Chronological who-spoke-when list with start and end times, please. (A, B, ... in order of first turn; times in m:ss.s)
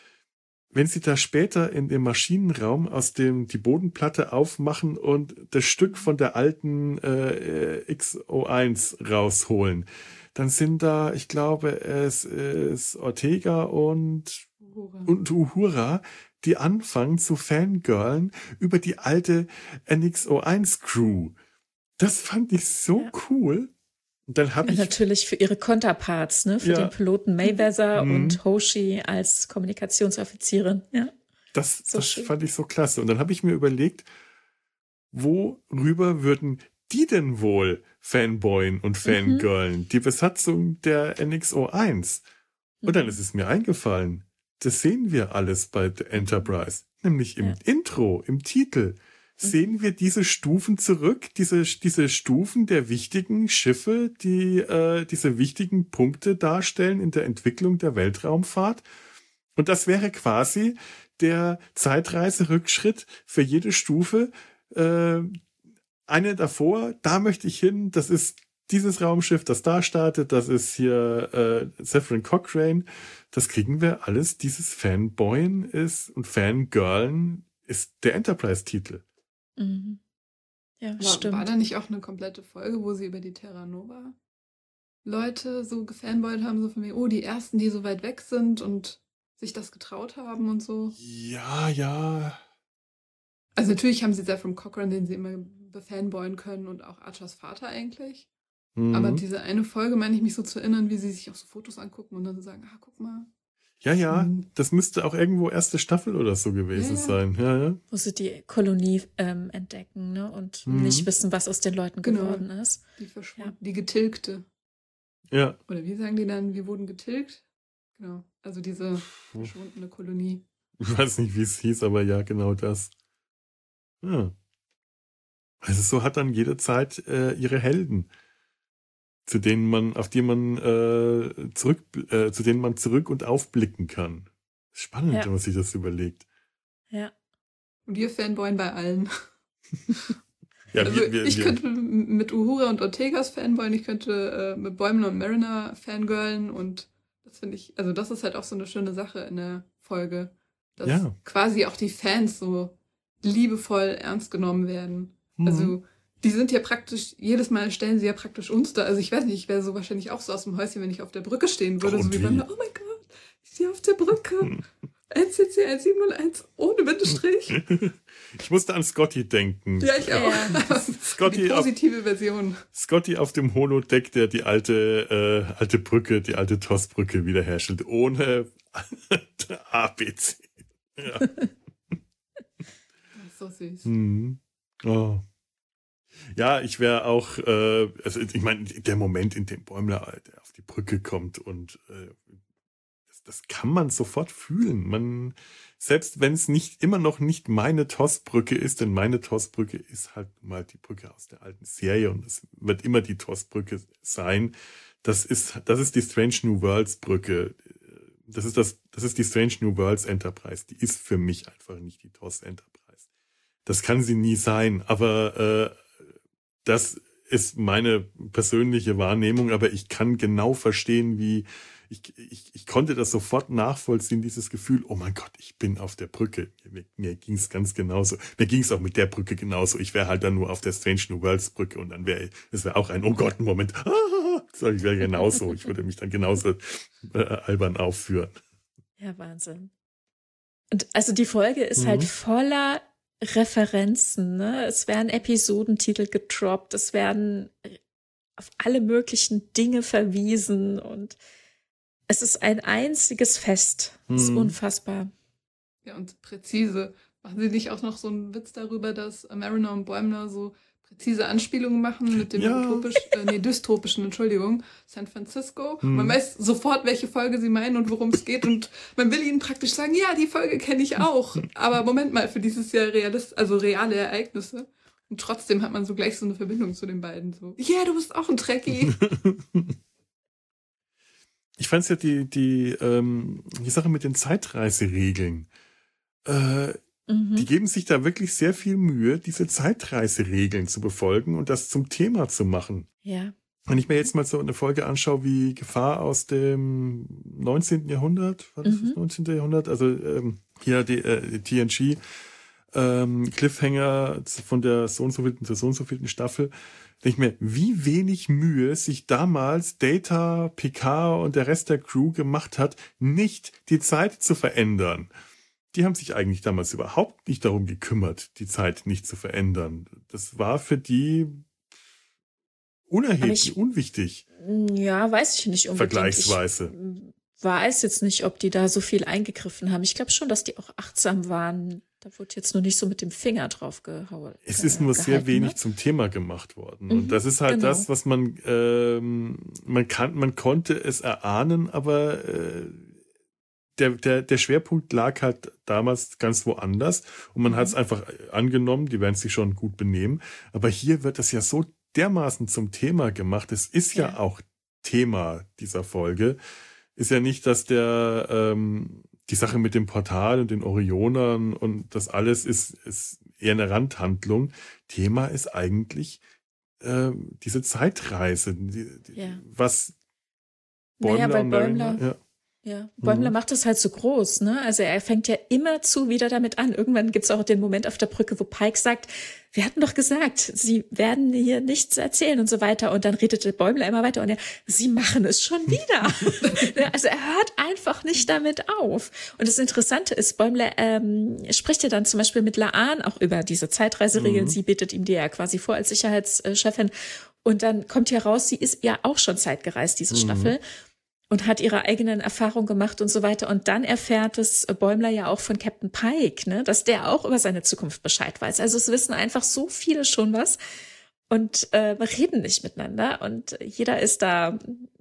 0:00.7-0:14.4 A
0:14.6-0:15.1 B
0:15.1-0:21.4 A
0:22.0-0:23.7 A
0:24.3-0:25.0 A
0:24.7-0:31.1 C
0:26.6-0:27.0 A
0:27.9-0:28.4 A
0:31.5-0:34.1 A
0:31.9-0:32.3 C
0:35.1-0:42.2 A
0:39.1-0:39.5 C
0:42.8-0:43.2 C
0:42.8-0:58.8 A
0:59.6-1:05.3 A
1:06.1-1:19.0 A
1:19.6-1:20.0 C
1:20.8-1:21.5 C
1:21.0-1:24.2 B
1:25.0-1:31.0 B
1:31.0-1:32.4 A
1:33.6-1:38.3 B
1:38.8-1:39.2 A
1:38.9-1:43.3 B
1:43.8-1:47.8 A
1:44.1-1:44.5 B
1:46.7-1:47.2 B
1:47.9-1:52.8 C
1:50.7-1:51.1 A
1:52.0-1:52.5 B
1:53.0-1:54.5 B
1:55.3-1:55.6 A
1:55.7-1:57.4 B
1:58.0-2:00.4 B
2:00.8-2:02.9 A
2:04.0-2:04.3 A
2:05.6-2:08.1 A
2:09.3-2:16.2 A
2:17.9-2:19.1 B
2:20.7-2:21.6 A
2:20.8-2:47.6 B
2:30.8-2:31.2 A
2:35.4-2:35.8 A
2:41.8-2:42.4 A
2:47.5-2:51.7 A
2:49.8-2:52.6 B
2:50.1-2:50.6 C
2:52.8-3:01.3 A
3:01.2-3:01.5 C
3:03.2-3:03.9 B
3:03.8-3:05.2 A
3:06.3-3:12.3 A
3:13.1-3:24.5 A
3:25.0-3:32.9 A
3:33.7-3:35.8 A
3:36.6-3:58.4 A
3:59.0-3:59.7 C
4:00.7-4:07.8 C
4:01.8-4:02.1 A
4:08.4-4:11.2 C
4:12.1-4:15.1 C
4:14.1-4:14.6 A
4:15.8-4:39.0 B
4:22.2-4:22.9 A
4:25.8-4:26.2 A
4:38.8-4:39.8 A
4:41.6-4:45.5 A
4:46.3-4:46.8 A
4:47.1-4:47.5 C
4:47.4-4:52.9 A
4:53.0-4:53.3 C
4:53.7-5:02.0 A
4:58.6-4:59.0 C
5:02.7-5:15.1 A
5:15.7-5:21.4 A
5:22.9-5:24.2 A
5:23.2-5:23.6 C
5:24.4-5:35.6 C
5:25.8-5:26.7 A
5:34.5-5:42.9 A
5:36.9-5:37.9 C
5:43.8-5:56.4 A
5:47.5-5:47.8 C
5:57.0-6:06.2 A
6:06.8-6:09.9 A
6:09.2-6:09.4 C
6:11.0-6:12.0 C
6:11.0-6:12.2 A
6:12.6-6:40.6 C
6:13.0-6:13.3 A
6:34.2-6:34.6 A
6:40.1-6:40.6 A
6:41.3-6:50.6 C
6:51.3-6:54.9 C